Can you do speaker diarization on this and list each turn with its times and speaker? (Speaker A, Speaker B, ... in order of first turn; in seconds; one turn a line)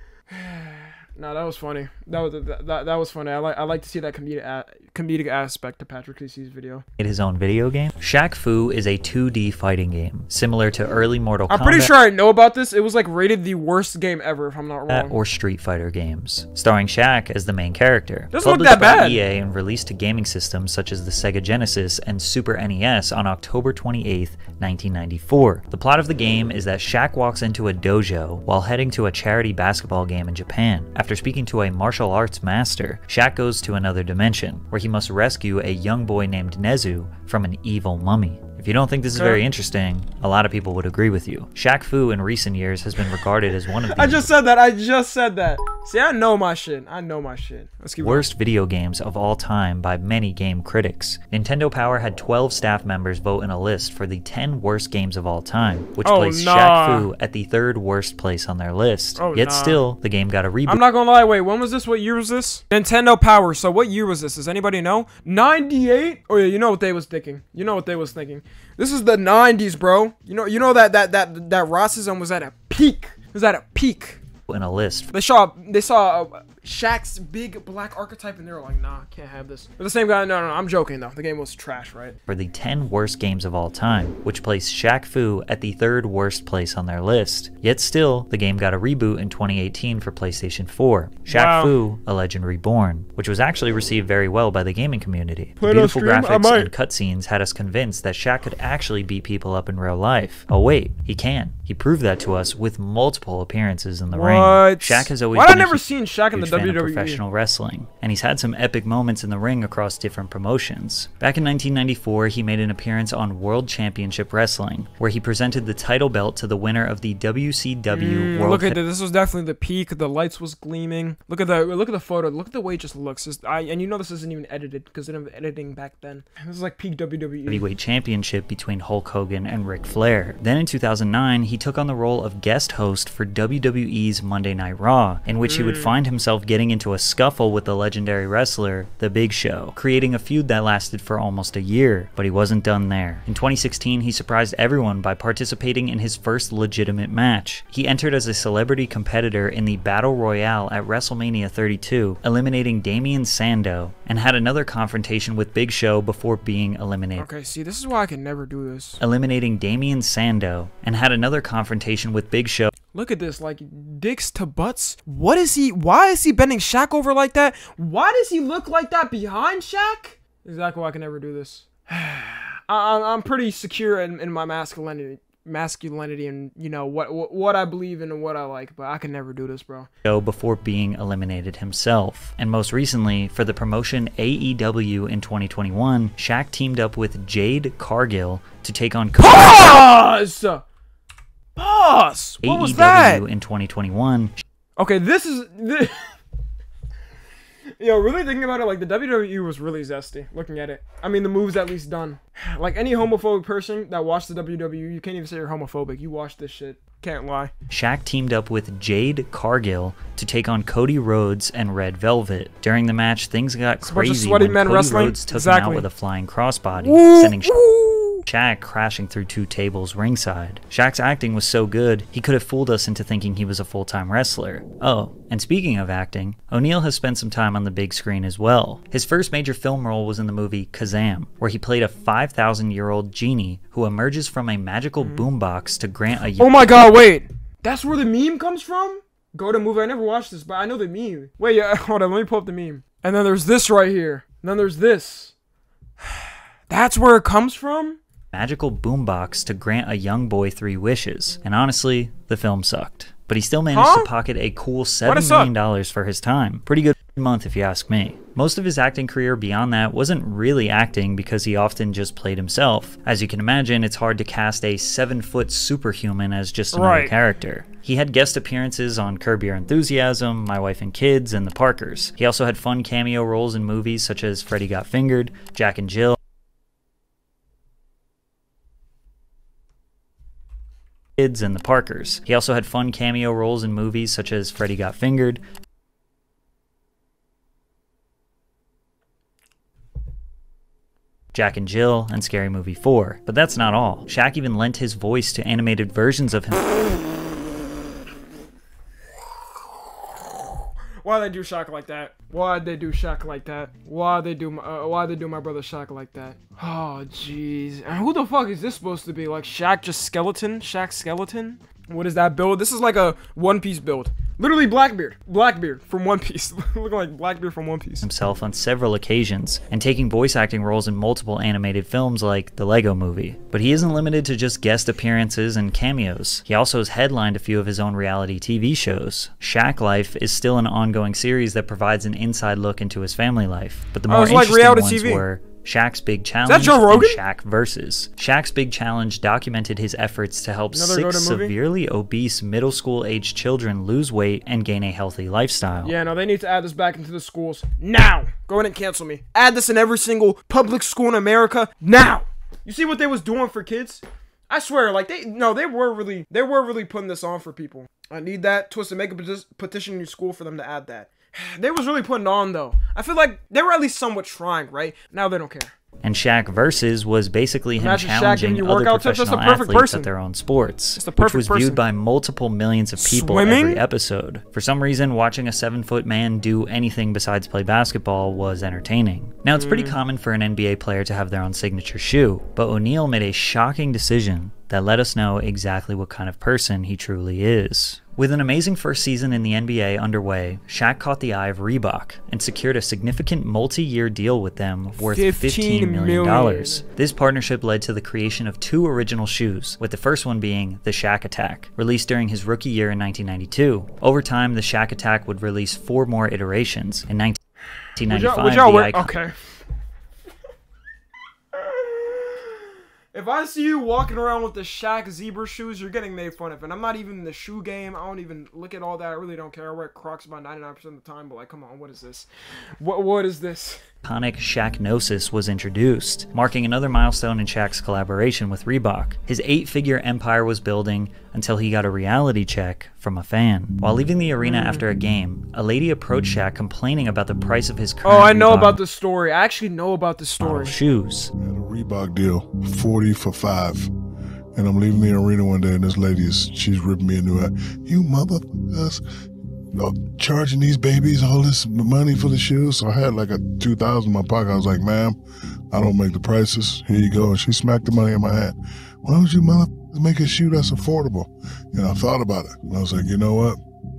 Speaker A: 0.3-6.8
Speaker B: 7.0-11.9
Speaker A: 11.5-15.1
Speaker B: 14.9-44.3
Speaker A: 18.3-19.2
Speaker A: 39.1-39.4
Speaker A: 43.9-48.3
Speaker B: 48.0-60.8
Speaker A: 56.0-57.1
Speaker A: 59.2-59.8
Speaker A: 60.7-74.2
Speaker B: 74.5-75.1
Speaker A: 75.1-82.2
Speaker B: 82.3-118.8
Speaker A: 91.3-91.7
Speaker A: 95.6-96.7
Speaker A: 104.1-107.2
Speaker A: 117.9-127.7
Speaker B: 127.5-157.3
Speaker A: 135.4-135.9
Speaker A: 157.2-159.0
Speaker B: 159.0-162.7
Speaker A: 162.9-179.9
Speaker B: 180.0-189.7
Speaker A: 189.2-190.6
Speaker A: 191.6-193.2
Speaker B: 192.4-194.4
Speaker A: 194.8-196.1
Speaker A: 197.7-207.5
Speaker B: 207.7-217.6
Speaker A: 213.8-215.8
Speaker A: 216.8-218.2
Speaker B: 218.2-236.7
Speaker A: 235.0-235.2
Speaker A: 236.4-245.3
Speaker A: 246.1-248.0
Speaker B: 248.3-276.2
Speaker A: 253.7-254.1
Speaker A: 255.1-255.5
Speaker A: 266.7-267.1
Speaker B: 281.2-285.4
Speaker B: 291.3-296.8
Speaker A: 301.0-318.1
Speaker B: 318.0-345.9
Speaker A: 334.1-335.2
Speaker A: 336.4-337.2
Speaker A: 340.7-341.5
Speaker A: 345.8-365.7
Speaker B: 366.0-407.4
Speaker A: 367.8-370.1
Speaker A: 370.9-371.8
Speaker A: 373.0-373.8
Speaker A: 379.6-380.0
Speaker A: 395.1-396.8
Speaker B: 407.9-409.1
Speaker A: 408.0-409.6
Speaker A: 411.5-412.6
Speaker A: 413.1-422.3
Speaker A: 422.8-423.8
Speaker B: 424.0-438.8
Speaker A: 434.4-434.8
Speaker A: 438.0-440.8
Speaker B: 440.4-441.3
Speaker C: 441.4-443.9
Speaker C: 444.5-449.0
Speaker C: 449.7-455.2
Speaker C: 455.7-463.6